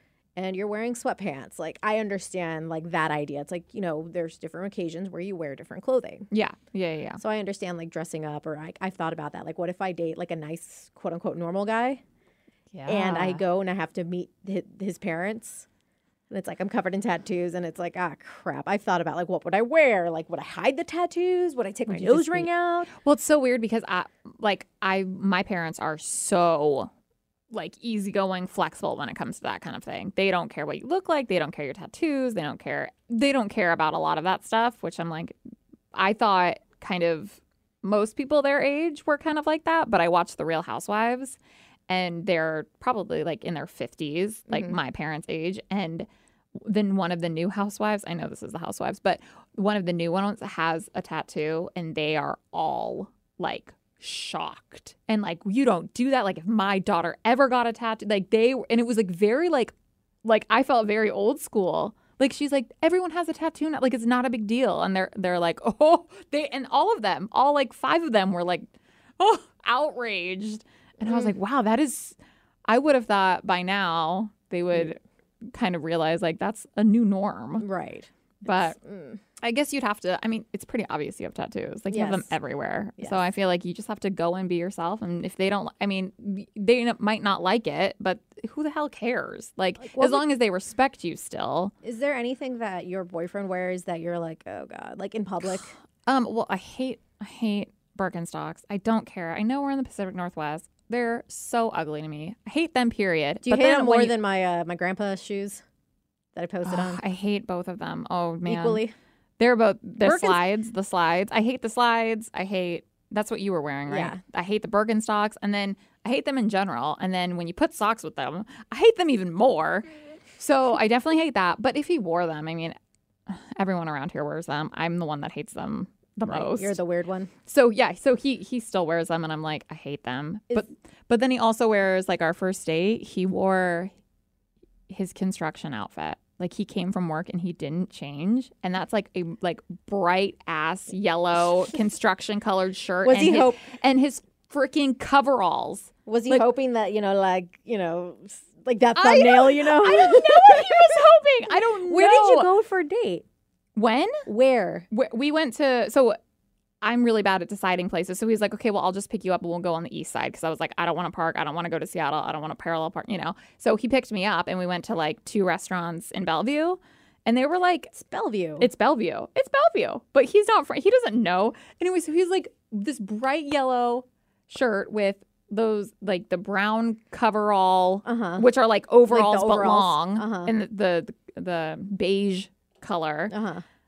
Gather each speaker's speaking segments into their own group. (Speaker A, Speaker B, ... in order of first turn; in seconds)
Speaker A: 0.4-6.3, 7.2-12.0, 12.9-15.7, 16.3-22.9, 77.6-79.2, 81.9-82.3, 89.8-90.3, 91.8-95.7, 103.4-105.6, 106.3-107.0, 108.5-108.9, 110.0-110.4, 113.9-114.2, 126.2-127.3, 143.1-143.7, 146.1-153.2, 154.2-154.9, 167.9-168.7, 178.1-178.5, 179.1-180.5, 183.3-183.6
Speaker B: 6.3-7.2, 12.7-13.4, 21.9-26.9, 27.5-35.4, 35.9-41.4, 41.9-59.7, 60.2-77.7, 78.5-78.8, 79.4-91.7, 96.1-104.2, 106.6-108.8, 109.4-122.8, 123.3-126.8, 127.5-133.9, 134.9-146.5, 149.0-152.5, 153.8-154.2, 154.9-156.2, 156.8-167.9, 168.6-183.3